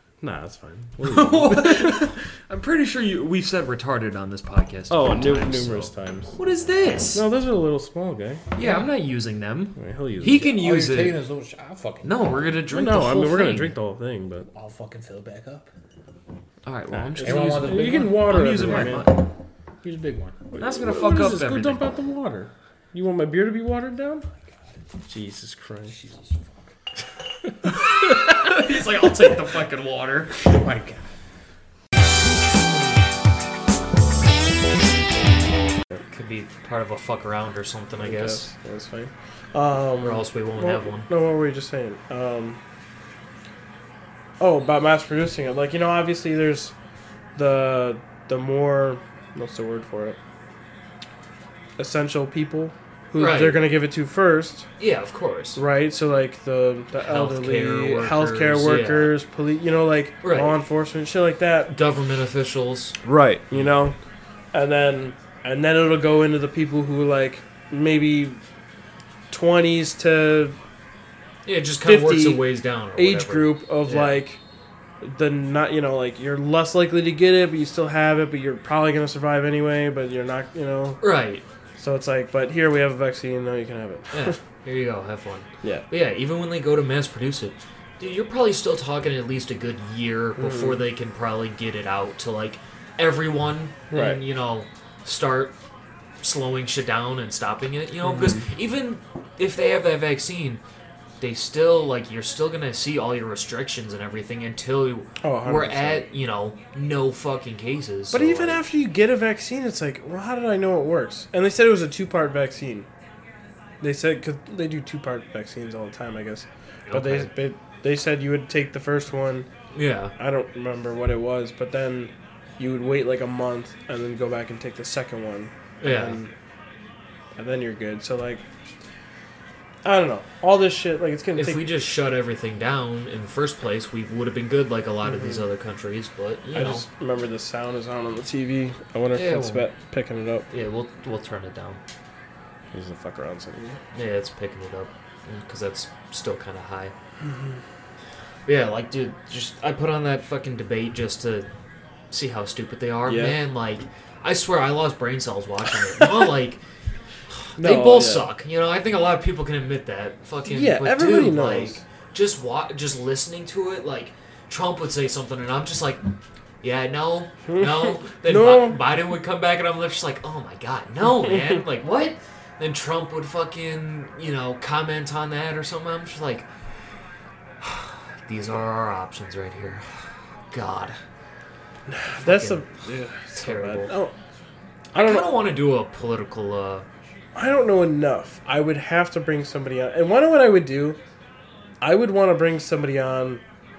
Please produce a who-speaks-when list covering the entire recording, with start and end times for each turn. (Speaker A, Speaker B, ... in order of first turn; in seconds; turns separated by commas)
Speaker A: 0.2-2.1, Speaker B: 1.0-7.3, Speaker A: 4.9-6.3, Speaker A: 7.1-8.4, Speaker B: 8.5-11.2, Speaker A: 9.8-10.6, Speaker C: 10.2-12.2, Speaker B: 12.0-13.8, Speaker A: 12.7-14.5, Speaker C: 14.5-15.7, Speaker B: 16.6-19.3, Speaker A: 16.9-19.2, Speaker C: 17.2-19.1, Speaker C: 19.8-20.4, Speaker A: 20.5-24.2, Speaker B: 20.6-21.9, Speaker C: 24.3-24.8, Speaker A: 25.1-25.9, Speaker C: 25.9-26.6, Speaker B: 27.8-30.6, Speaker C: 30.4-31.0, Speaker B: 36.1-38.5, Speaker A: 38.0-42.6, Speaker B: 40.0-41.1, Speaker A: 44.4-46.7, Speaker A: 47.4-50.2, Speaker A: 51.8-54.7, Speaker B: 53.2-53.6, Speaker B: 54.8-55.6, Speaker A: 55.5-61.7, Speaker B: 57.0-59.2, Speaker B: 60.2-60.6, Speaker B: 61.7-63.0, Speaker A: 63.0-64.0, Speaker A: 64.5-68.4, Speaker A: 69.3-70.6, Speaker B: 71.4-74.2, Speaker A: 71.8-74.4, Speaker A: 75.0-81.0, Speaker B: 81.0-81.5, Speaker A: 81.8-84.4, Speaker B: 84.1-95.6, Speaker A: 85.6-85.9, Speaker A: 90.4-90.8, Speaker A: 93.9-94.2, Speaker B: 96.2-100.6, Speaker A: 98.0-98.5, Speaker B: 101.2-108.6, Speaker A: 105.2-106.1, Speaker A: 108.1-112.9, Speaker A: 113.8-119.5, Speaker B: 116.9-117.3, Speaker B: 119.7-120.1, Speaker A: 120.2-126.3, Speaker B: 125.8-126.2, Speaker A: 127.3-128.4, Speaker A: 129.8-131.7, Speaker B: 131.3-136.8, Speaker A: 135.0-135.5, Speaker A: 136.5-140.5, Speaker B: 139.1-139.7, Speaker B: 140.5-141.8, Speaker A: 142.7-143.8, Speaker B: 143.9-146.9, Speaker A: 147.2-147.6, Speaker B: 148.4-151.5, Speaker B: 152.1-156.6, Speaker A: 153.0-153.4, Speaker B: 157.5-166.0, Speaker A: 157.6-158.3, Speaker A: 160.4-161.8, Speaker B: 166.6-176.5, Speaker A: 167.5-168.8, Speaker B: 177.6-179.9, Speaker B: 180.5-181.0, Speaker A: 181.9-184.2, Speaker B: 182.1-182.7, Speaker B: 183.3-183.9, Speaker A: 184.9-185.4, Speaker B: 184.9-186.8, Speaker A: 187.3-191.0, Speaker A: 191.8-193.4